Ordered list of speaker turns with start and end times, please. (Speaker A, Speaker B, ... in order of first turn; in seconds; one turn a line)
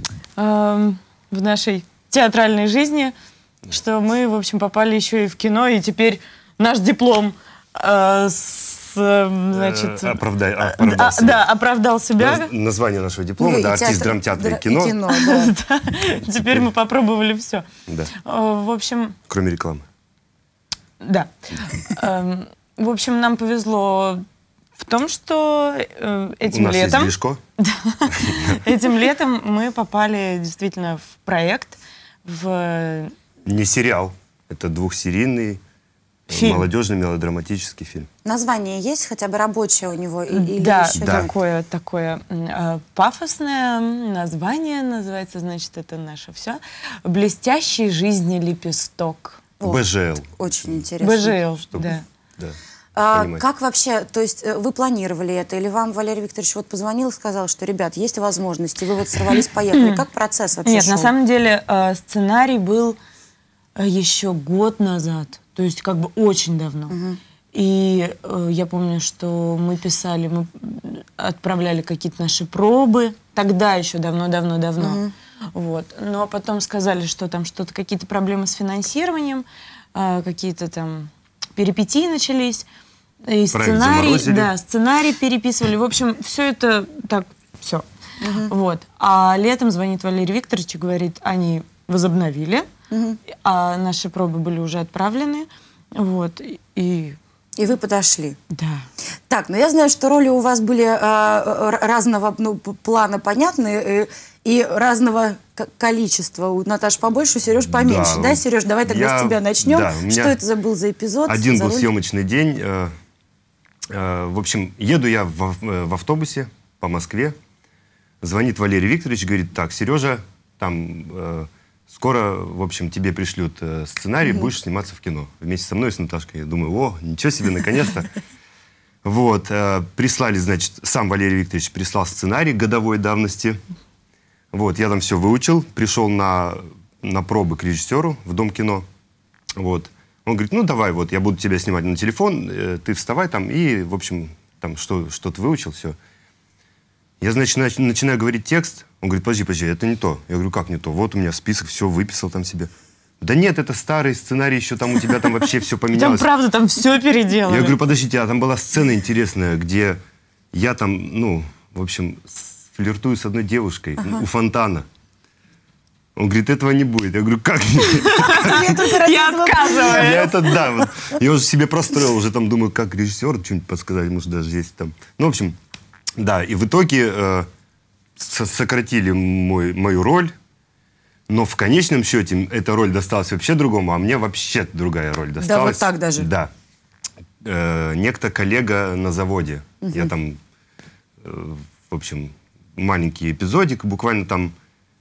Speaker A: 0.4-3.1
Speaker A: 3.7-12.5
Speaker B: 9.5-11.4
Speaker B: 12.2-15.0
Speaker C: 13.4-15.6
Speaker A: 15.1-19.2
Speaker B: 19.3-19.9
Speaker A: 21.0-24.2
Speaker A: 24.8-33.1
Speaker B: 26.5-27.4
Speaker B: 28.1-28.6
Speaker B: 33.5-35.6
Speaker A: 36.3-36.7
Speaker B: 36.3-38.1
Speaker C: 38.2-41.3
Speaker A: 40.3-49.4
Speaker B: 41.0-41.3
Speaker C: 49.6-51.4
Speaker B: 49.6-50.9
Speaker A: 51.0-52.0
Speaker B: 51.7-52.6
Speaker C: 53.0-61.1
Speaker B: 53.1-53.4
Speaker A: 59.7-60.0
Speaker A: 60.7-63.0
Speaker A: 63.8-67.0
Speaker C: 66.9-67.2
Speaker A: 67.5-75.0
Speaker C: 74.8-75.1
Speaker A: 75.5-82.7
Speaker A: 83.3-92.7
Speaker B: 83.5-84.5
Speaker C: 88.2-88.5
Speaker C: 92.9-93.2
Speaker A: 93.3-97.2
Speaker C: 97.6-98.4
Speaker A: 98.5-98.9
Speaker C: 99.3-111.9
Speaker B: 107.7-110.4
Speaker B: 111.3-112.9
Speaker B: 113.9-117.4
Speaker B: 118.2-128.1
Speaker B: 129.0-133.6
Speaker B: 134.5-138.9
Speaker B: 139.6-146.0
Speaker B: 147.2-152.7
Speaker B: 153.2-156.3
Speaker A: 155.9-157.8
Speaker B: 157.5-160.0
Speaker B: 160.5-164.9
Speaker B: 166.2-168.8
Speaker A: 167.8-170.3
Speaker C: 168.3-170.8
Speaker B: 169.8-175.6
Speaker B: 176.2-177.5
Speaker B: 178.2-180.3
Speaker B: 181.3-186.5
Speaker C: 185.4-186.3
Speaker B: 187.4-190.4
Speaker C: 189.8-190.1
Speaker B: 191.2-194.5